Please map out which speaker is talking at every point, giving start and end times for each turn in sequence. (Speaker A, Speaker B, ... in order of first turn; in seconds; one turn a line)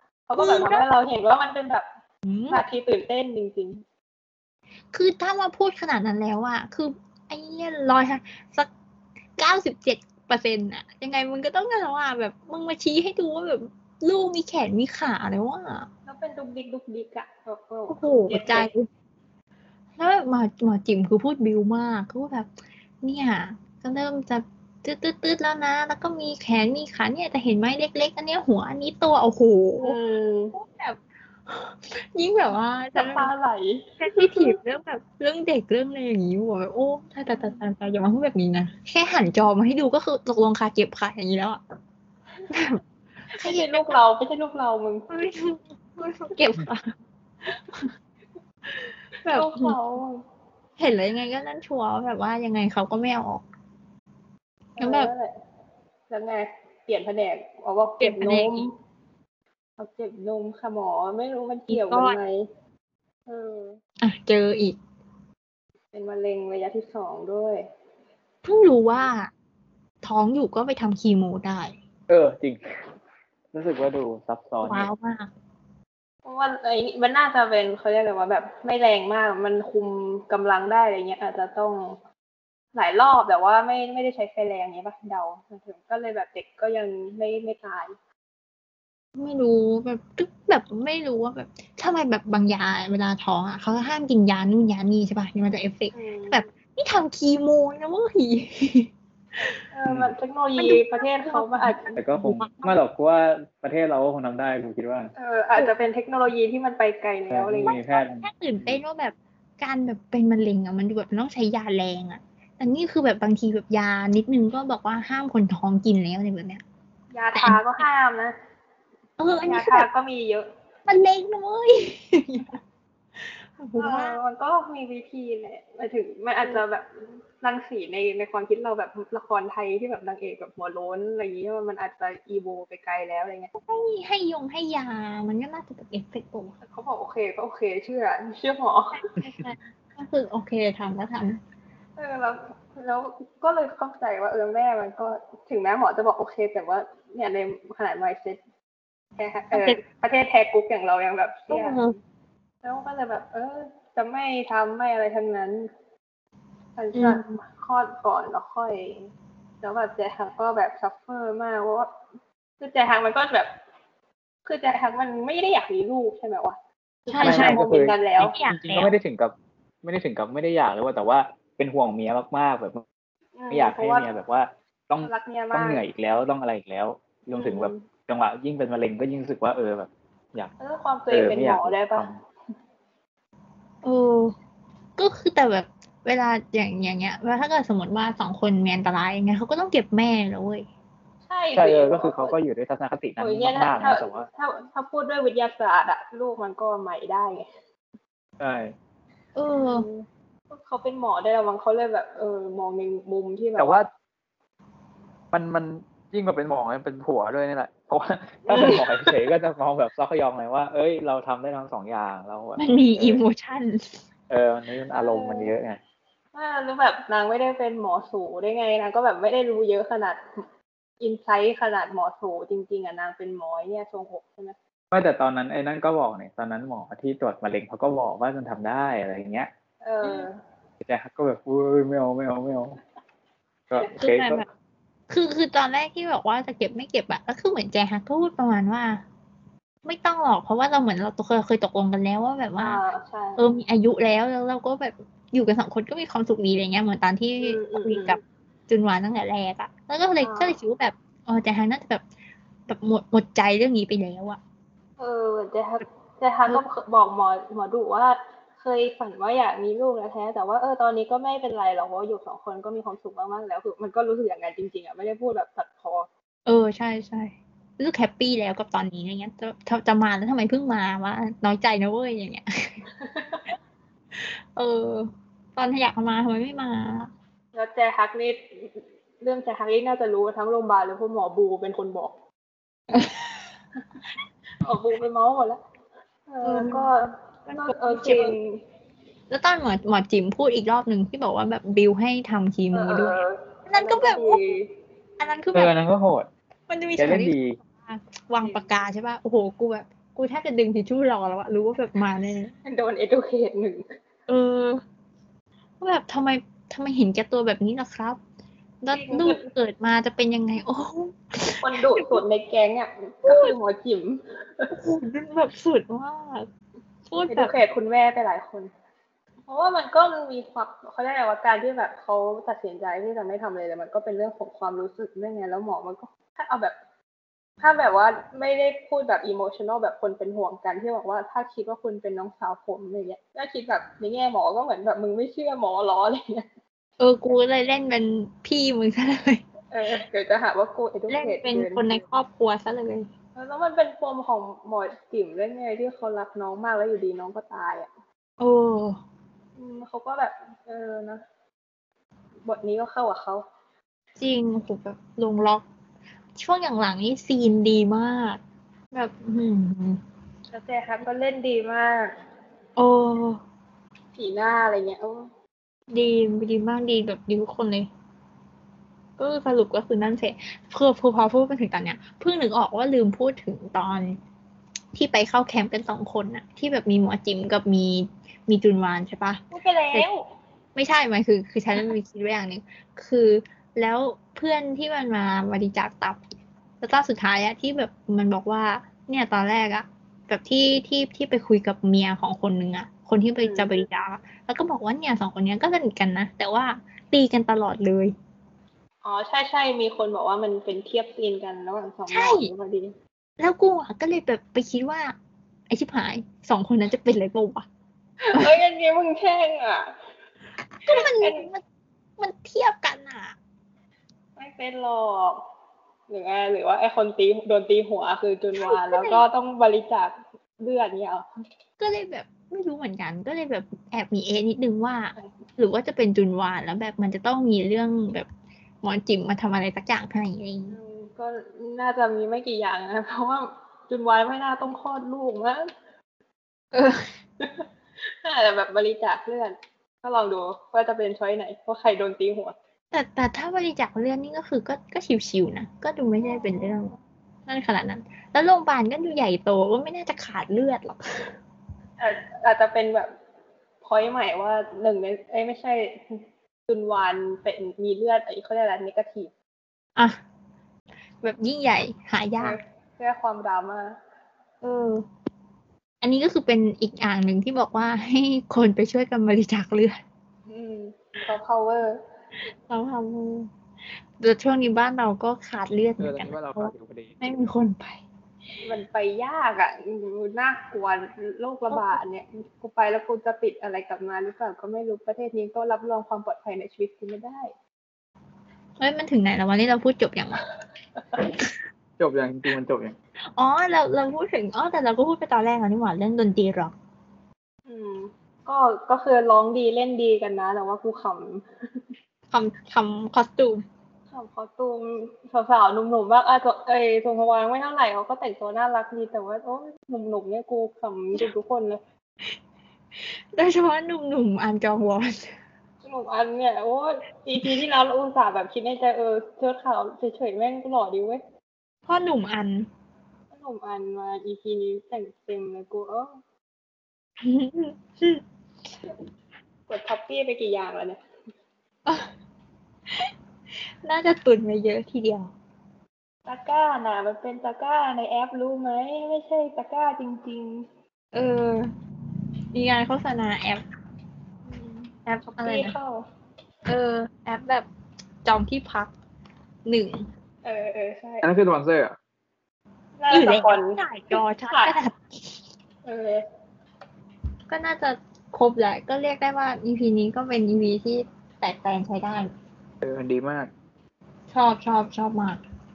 Speaker A: 0.3-1.9
Speaker B: 0.4-0.8
Speaker B: 2.2-2.6
Speaker A: 2.5-3.8
Speaker B: 4.9-8.7
Speaker B: 9.4-15.9
Speaker A: 16.1-18.7
Speaker B: 17.9-18.9
Speaker B: 20.0-22.5
Speaker B: 23.0-29.9
Speaker A: 29.8-30.6
Speaker B: 30.5-33.3
Speaker A: 33.0-34.5
Speaker B: 34.0-41.6
Speaker A: 37.3-37.6
Speaker B: 42.5-42.8
Speaker B: 43.3-44.0
Speaker A: 43.3-45.1
Speaker B: 45.1-46.9
Speaker B: 48.7-49.8
Speaker A: 49.3-50.2
Speaker B: 50.8-53.4
Speaker A: 54.8-55.3
Speaker B: 54.8-55.1
Speaker A: 56.1-58.7
Speaker B: 58.0-58.7
Speaker A: 59.8-62.4
Speaker B: 61.7-62.2
Speaker A: 63.3-63.8
Speaker B: 64.0-64.8
Speaker A: 65.9-67.7
Speaker B: 68.4-69.3
Speaker B: 70.0-71.8
Speaker C: 72.1-72.8
Speaker C: 73.5-74.9
Speaker B: 74.6-75.3
Speaker A: 76.2-82.0
Speaker A: 82.7-87.9
Speaker B: 89.2-99.6
Speaker A: 95.9-96.4
Speaker A: 99.7-102.0
Speaker C: 99.9-100.1
Speaker B: 100.6-102.8
Speaker C: 102.0-105.1
Speaker A: 105.2-108.0
Speaker C: 107.3-108.8
Speaker B: 107.7-116.6
Speaker A: 117.1-118.3
Speaker B: 117.3-117.9
Speaker B: 119.2-119.9
Speaker A: 119.4-120.5
Speaker B: 120.9-122.6
Speaker B: 123.2-124.2
Speaker A: 123.8-126.9
Speaker A: 127.4-133.5
Speaker B: 133.6-136.5
Speaker A: 136.6-139.0
Speaker B: 138.9-141.4
Speaker A: 142.0-148.4
Speaker A: 149.2-151.9
Speaker B: 149.5-149.8
Speaker B: 151.5-151.9
Speaker A: 152.6-155.7
Speaker A: 156.8-159.1
Speaker B: 156.9-157.4
Speaker A: 159.6-161.9
Speaker A: 162.6-163.5
Speaker A: 164.4-168.3
Speaker B: 167.1-167.6
Speaker C: 167.2-172.8
Speaker B: 168.2-168.9
Speaker A: 173.3-174.1
Speaker C: 173.5-180.5
Speaker A: 175.0-175.8
Speaker A: 177.3-177.9
Speaker A: 180.6-182.1
Speaker C: 181.1-182.2
Speaker B: 183.8-184.3
Speaker B: 185.0-190.7
Speaker A: 191.3-192.3
Speaker C: 191.5-194.3
Speaker A: 193.2-197.4
Speaker C: 198.4-198.7
Speaker B: 199.4-199.9
Speaker A: 199.6-203.8
Speaker C: 203.6-203.9
Speaker C: 205.3-213.2
Speaker A: 208.5-208.8
Speaker B: 212.6-214.0
Speaker C: 214.3-215.8
Speaker A: 215.0-215.5
Speaker A: 216.3-220.2
Speaker A: 221.0-224.6
Speaker C: 224.9-229.5
Speaker A: 229.8-230.4
Speaker C: 230.8-232.8
Speaker C: 233.7-234.4
Speaker B: 234.0-234.4
Speaker B: 235.1-239.0
Speaker B: 239.8-242.8
Speaker A: 242.6-243.6
Speaker B: 243.4-252.0
Speaker A: 247.4-248.2
Speaker A: 250.2-250.6
Speaker B: 252.7-254.4
Speaker A: 255.0-266.1
Speaker B: 266.5-272.8
Speaker A: 273.0-273.4
Speaker B: 274.1-277.1
Speaker A: 277.5-282.2
Speaker B: 282.9-283.4
Speaker A: 284.6-285.6
Speaker A: 286.3-288.6
Speaker B: 286.4-286.9
Speaker B: 287.5-288.3
Speaker B: 289.3-294.4
Speaker A: 292.7-294.7
Speaker B: 295.2-295.7
Speaker C: 295.5-296.3
Speaker B: 296.7-302.5
Speaker C: 297.0-297.6
Speaker A: 298.4-298.7
Speaker A: 302.6-303.8
Speaker B: 304.3-304.8
Speaker B: 305.8-308.2
Speaker B: 308.8-312.2
Speaker A: 308.9-309.5
Speaker A: 311.6-314.7
Speaker B: 313.2-313.5
Speaker B: 314.7-316.5
Speaker B: 317.1-317.5
Speaker A: 317.3-318.7
Speaker A: 319.5-326.8
Speaker A: 327.6-336.4
Speaker B: 337.0-339.4
Speaker A: 339.7-341.9
Speaker B: 341.1-343.1
Speaker A: 343.4-347.9
Speaker B: 348.4-349.0
Speaker A: 349.6-351.2
Speaker A: 352.5-353.4
Speaker B: 354.2-355.6
Speaker B: 356.4-358.4
Speaker B: 358.9-360.0
Speaker A: 360.5-362.1
Speaker B: 362.8-363.4
Speaker A: 364.1-365.2
Speaker B: 365.9-367.9
Speaker B: 369.2-374.2
Speaker B: 374.9-379.4
Speaker A: 379.5-380.2
Speaker B: 380.8-386.2
Speaker B: 386.8-398.1
Speaker A: 393.4-393.7
Speaker A: 399.0-402.9
Speaker B: 402.1-402.5
Speaker B: 403.4-405.1
Speaker B: 405.7-407.7
Speaker A: 408.2-409.9
Speaker B: 410.8-411.6
Speaker A: 410.9-411.4
Speaker B: 412.2-413.4
Speaker A: 414.4-415.4
Speaker A: 416.1-421.2
Speaker B: 418.6-419.2
Speaker B: 421.8-428.3
Speaker B: 428.8-430.8
Speaker A: 430.7-435.7
Speaker A: 437.4-437.7
Speaker A: 438.2-442.6
Speaker B: 442.9-447.0
Speaker A: 446.2-446.8
Speaker B: 447.5-451.3
Speaker A: 452.0-453.1
Speaker A: 453.8-459.3
Speaker B: 461.2-462.6
Speaker A: 462.4-464.0
Speaker B: 464.6-465.0
Speaker B: 466.0-470.0
Speaker A: 470.5-472.0
Speaker B: 472.7-473.5
Speaker B: 474.2-478.0
Speaker C: 476.0-477.2
Speaker A: 478.6-487.5
Speaker B: 481.7-482.0
Speaker B: 488.8-490.4
Speaker C: 492.0-493.0
Speaker B: 493.3-496.7
Speaker A: 497.7-501.8
Speaker B: 502.3-503.6
Speaker A: 504.1-511.8
Speaker B: 513.0-515.3
Speaker A: 515.8-521.2
Speaker B: 521.9-522.7
Speaker A: 523.3-526.1
Speaker B: 527.2-528.2
Speaker A: 529.7-531.0
Speaker B: 531.9-532.1
Speaker B: 533.8-535.3
Speaker A: 536.2-540.7
Speaker B: 541.1-541.7
Speaker B: 542.5-543.6
Speaker A: 544.5-546.0
Speaker B: 545.0-545.7
Speaker B: 546.7-547.7
Speaker B: 548.2-548.9
Speaker B: 549.7-550.1
Speaker A: 550.4-551.2
Speaker C: 551.2-552.0
Speaker A: 553.0-554.8
Speaker B: 553.1-555.4
Speaker A: 555.8-556.2
Speaker B: 557.5-562.3
Speaker C: 562.8-563.5
Speaker B: 564.3-565.4